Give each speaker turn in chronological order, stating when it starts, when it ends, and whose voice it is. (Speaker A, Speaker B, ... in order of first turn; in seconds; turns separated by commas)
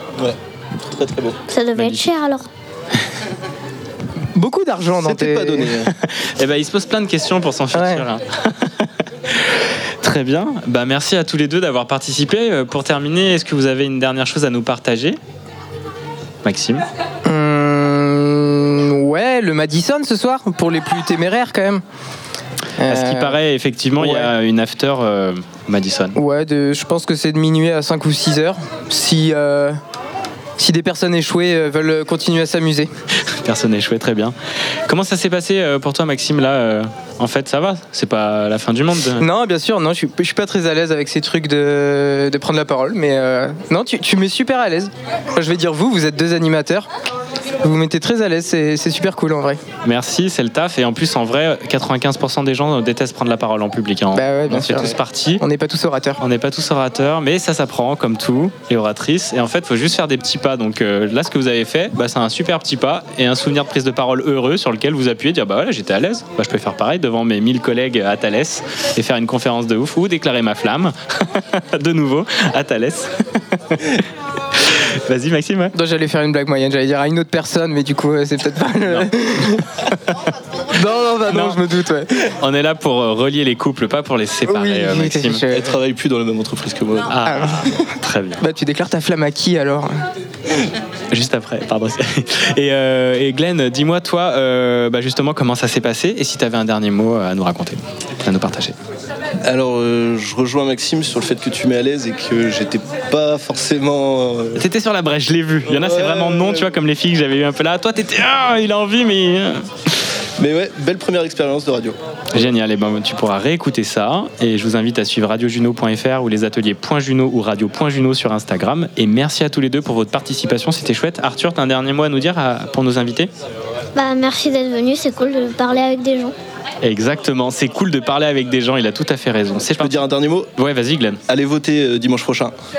Speaker A: 0.2-1.4, Speaker B: 1.5-2.5, Speaker C: 1.8-2.1, Speaker D: 4.3-5.8, Speaker A: 5.0-5.9, Speaker C: 5.9-8.9, Speaker D: 7.7-8.1, Speaker C: 10.0-15.2, Speaker C: 16.4-16.9, Speaker D: 17.2-21.8, Speaker D: 22.8-23.4, Speaker C: 22.9-26.2, Speaker D: 24.0-24.3, Speaker D: 26.1-29.8, Speaker D: 30.6-32.9, Speaker C: 33.3-34.4, Speaker C: 34.9-39.2, Speaker D: 39.2-46.9, Speaker D: 47.6-49.6, Speaker C: 49.8-55.4, Speaker D: 54.1-56.2, Speaker C: 56.2-75.7, Speaker D: 75.7-79.7, Speaker C: 78.9-80.3, Speaker D: 80.7-82.1, Speaker C: 81.3-81.6, Speaker C: 82.2-85.4, Speaker D: 84.5-85.8, Speaker A: 85.5-87.2, Speaker C: 87.1-88.4, Speaker D: 87.2-89.9, Speaker C: 91.1-98.8, Speaker A: 99.4-104.6, Speaker C: 104.5-109.7, Speaker A: 105.7-106.7, Speaker A: 110.4-112.0, Speaker C: 112.3-123.3, Speaker B: 124.0-126.3, Speaker C: 126.8-131.2, Speaker A: 129.8-130.5, Speaker A: 131.3-132.5